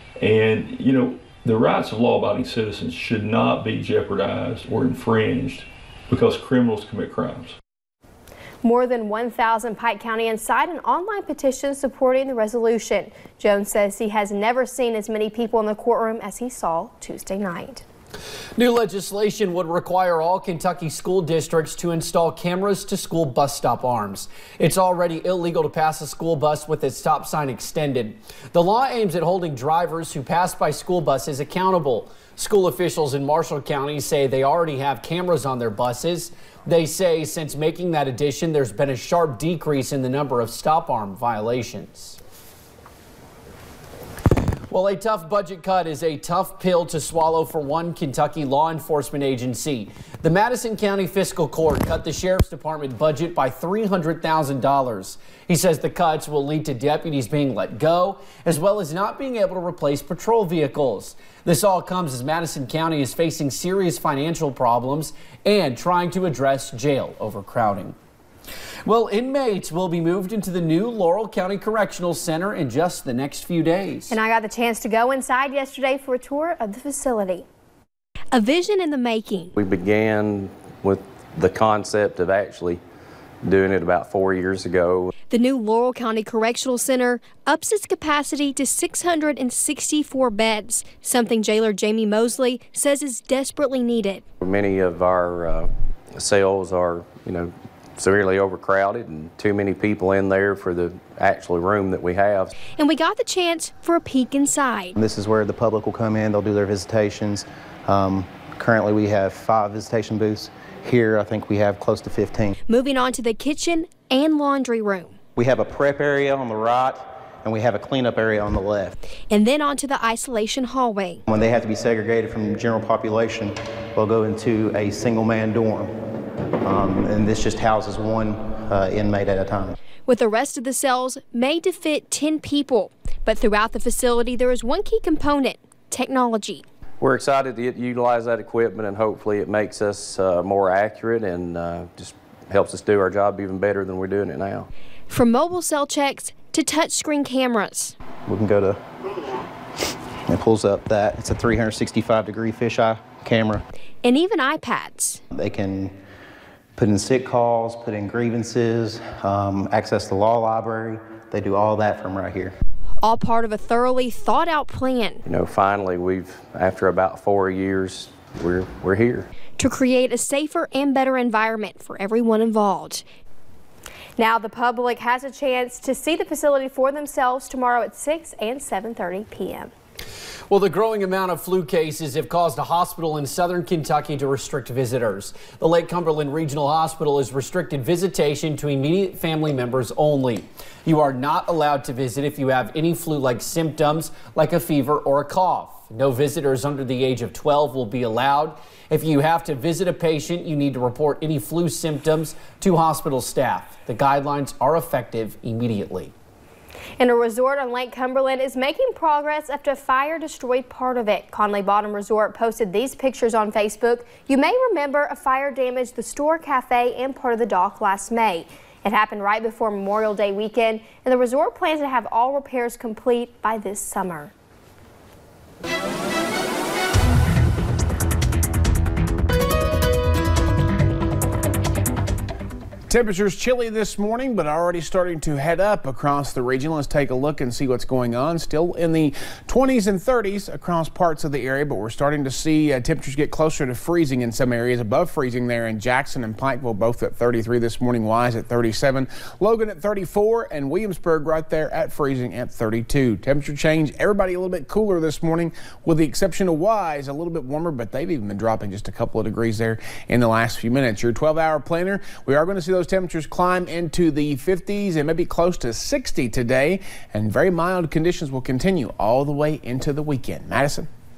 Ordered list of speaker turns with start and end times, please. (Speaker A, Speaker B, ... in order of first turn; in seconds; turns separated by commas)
Speaker A: 0.2-7.5, Speaker B: 8.6-17.8, Speaker C: 18.6-42.2, Speaker C: 44.7-68.0, Speaker C: 68.8-74.2, Speaker B: 74.1-77.5, Speaker B: 78.3-79.5, Speaker D: 79.6-82.8, Speaker D: 83.4-85.1, Speaker B: 85.3-94.2, Speaker D: 94.4-102.5, Speaker B: 102.8-105.0, Speaker E: 105.0-112.5, Speaker B: 112.7-115.2, Speaker E: 115.4-118.9, Speaker B: 119.3-121.2, Speaker E: 121.3-125.9, Speaker E: 126.6-129.7, Speaker B: 130.1-136.6, Speaker D: 137.0-144.7, Speaker B: 145.1-147.9, Speaker E: 148.3-148.8, Speaker E: 150.3-153.6, Speaker B: 154.0-155.2, Speaker E: 155.3-155.9, Speaker E: 156.8-162.5, Speaker B: 163.0-165.2, Speaker D: 165.3-169.3, Speaker B: 169.6-173.0, Speaker B: 174.2-179.7, Speaker C: 180.5-206.1, Speaker B: 207.0-224.3, Speaker F: 232.9-270.9